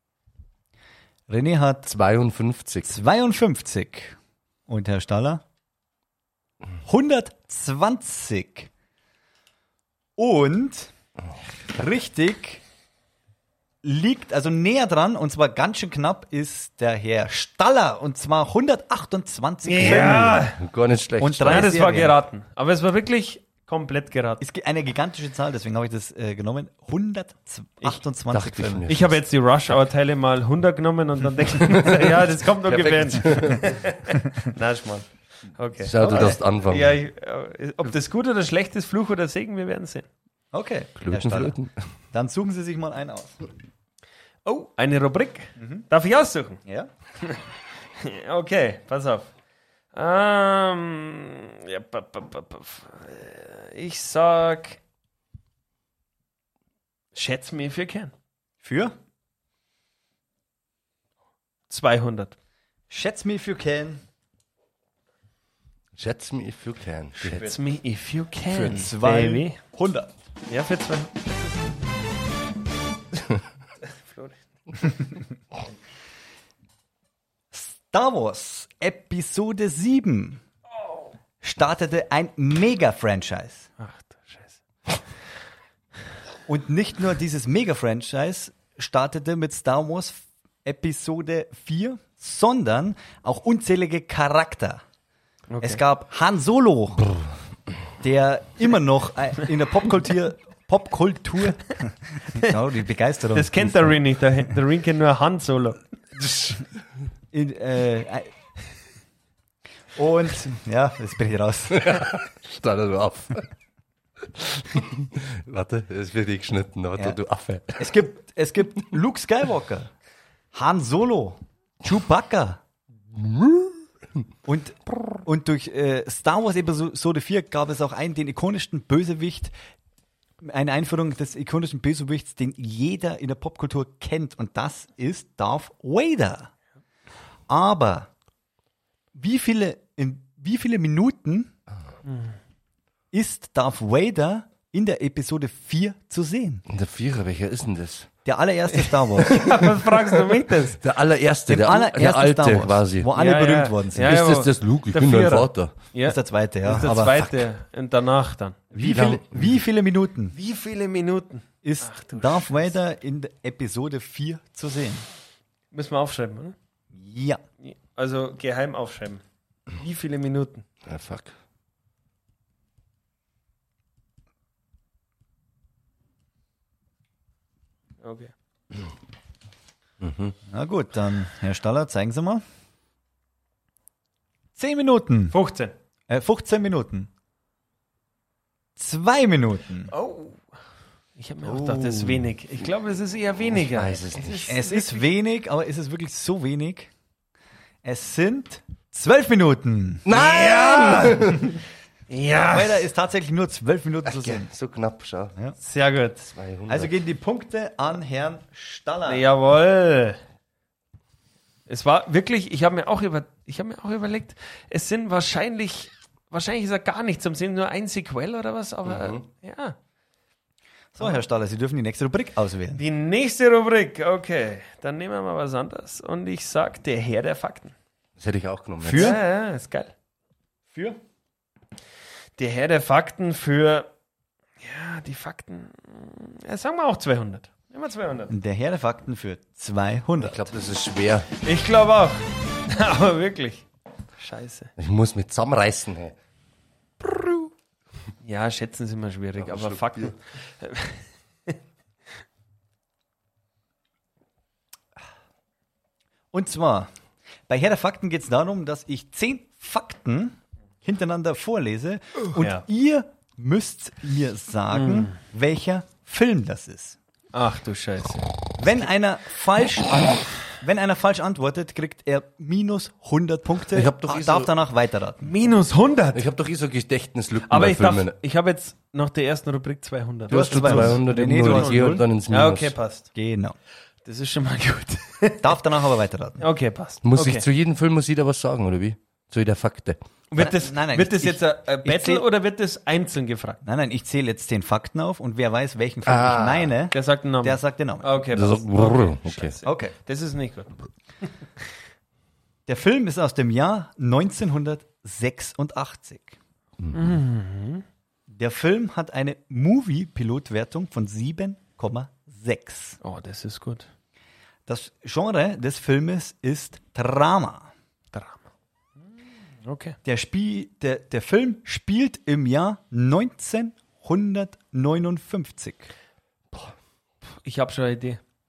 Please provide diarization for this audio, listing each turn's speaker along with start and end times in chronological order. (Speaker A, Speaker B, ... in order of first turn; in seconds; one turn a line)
Speaker A: 1.3-1.9
Speaker B: 1.9-2.9
Speaker A: 2.8-4.2
Speaker A: 4.7-5.4
Speaker A: 6.8-8.7
Speaker A: 10.2-10.9
Speaker A: 11.7-12.6
Speaker A: 13.8-20.4
Speaker C: 19.6-20.6
Speaker B: 19.8-21.7
Speaker A: 21.2-22.1
Speaker C: 21.4-24.4
Speaker A: 24.4-28.9
Speaker B: 28.3-29.2
Speaker C: 28.9-40.0
Speaker B: 31.6-33.8
Speaker B: 35.8-37.0
Speaker A: 36.0-36.4
Speaker A: 40.5-41.6
Speaker B: 41.0-41.8
Speaker A: 42.1-43.5
Speaker C: 44.4-46.6
Speaker A: 45.6-45.9
Speaker C: 48.0-49.3
Speaker C: 49.9-54.8
Speaker C: 57.1-58.1
Speaker A: 58.6-58.9
Speaker C: 61.7-62.3
Speaker A: 62.9-64.0
Speaker B: 65.9-67.5
Speaker C: 67.2-69.6
Speaker A: 68.5-70.1
Speaker C: 70.5-71.5
Speaker C: 74.1-74.3
Speaker A: 77.5-80.4
Speaker A: 81.4-83.7
Speaker C: 83.8-84.5
Speaker A: 86.5-94.8
Speaker C: 95.5-95.8
Speaker A: 95.6-97.1
Speaker A: 98.0-104.0
Speaker C: 103.3-105.8
Speaker B: 106.2-106.6
Speaker A: 107.3-108.3
Speaker A: 109.9-112.1
Speaker B: 111.8-113.5
Speaker B: 114.2-118.0
Speaker A: 117.8-119.9
Speaker A: 120.5-122.6
Speaker B: 123.1-123.8
Speaker A: 124.5-129.5
Speaker A: 130.4-136.5
Speaker A: 137.5-138.1
Speaker A: 139.1-141.5
Speaker C: 142.1-142.3
Speaker A: 143.1-146.6
Speaker B: 146.7-148.1
Speaker A: 148.2-149.5
Speaker C: 149.2-150.8
Speaker B: 149.3-153.1
Speaker A: 151.5-154.2
Speaker C: 153.1-158.6
Speaker B: 154.0-155.7
Speaker A: 156.0-157.3
Speaker A: 158.7-160.3
Speaker B: 158.8-159.6
Speaker C: 160.3-162.7
Speaker A: 161.6-165.1
Speaker C: 165.7-166.6
Speaker A: 166.9-167.4
Speaker C: 167.6-169.2
Speaker C: 169.7-170.6
Speaker B: 170.8-171.3
Speaker C: 178.0-178.3
Speaker B: 180.0-180.3
Speaker A: 180.5-182.4
Speaker A: 184.6-185.3
Speaker C: 185.3-185.7
Speaker A: 186.1-187.1
Speaker A: 188.8-189.9
Speaker C: 189.9-190.4
Speaker C: 191.2-195.1
Speaker A: 191.6-192.0
Speaker B: 191.8-192.2
Speaker B: 193.5-194.5
Speaker A: 194.5-196.9
Speaker A: 197.8-200.1
Speaker B: 200.0-201.6
Speaker C: 200.1-202.8
Speaker A: 202.5-204.5
Speaker B: 204.1-205.3
Speaker C: 205.6-206.3
Speaker B: 206.3-206.9
Speaker A: 206.7-209.2
Speaker C: 209.1-210.2
Speaker C: 211.7-219.8
Speaker B: 218.8-219.2
Speaker A: 220.9-222.8
Speaker C: 222.8-227.7
Speaker B: 228.2-229.2
Speaker A: 228.8-229.2
Speaker C: 228.9-229.9
Speaker A: 230.7-231.0
Speaker C: 232.4-233.9
Speaker C: 234.6-238.3
Speaker A: 238.3-240.5
Speaker B: 240.2-241.3
Speaker C: 241.4-243.6
Speaker C: 244.2-244.7
Speaker B: 244.8-246.2
Speaker C: 247.0-247.5
Speaker C: 248.2-251.5
Speaker B: 249.4-250.1
Speaker A: 256.3-256.9
Speaker A: 257.5-267.0
Speaker C: 262.4-262.6
Speaker C: 264.7-265.1
Speaker C: 267.3-268.9
Speaker A: 268.6-275.4
Speaker B: 273.7-274.5
Speaker C: 275.2-276.2
Speaker B: 276.1-278.1
Speaker C: 277.5-283.1
Speaker A: 280.3-282.0
Speaker B: 280.3-282.7
Speaker A: 283.1-283.6
Speaker C: 284.0-285.6
Speaker A: 285.4-286.4
Speaker C: 286.4-287.4
Speaker B: 287.0-290.0
Speaker A: 290.3-292.2
Speaker C: 290.3-293.6
Speaker A: 293.6-298.1
Speaker B: 296.1-296.7
Speaker C: 296.9-300.8
Speaker B: 298.3-299.6
Speaker A: 299.6-299.9
Speaker A: 302.7-306.4
Speaker C: 306.9-307.8
Speaker A: 308.3-313.0
Speaker C: 313.0-313.9
Speaker A: 314.7-317.7
Speaker C: 318.1-318.4
Speaker C: 319.6-319.9
Speaker A: 320.0-325.9
Speaker C: 327.4-328.2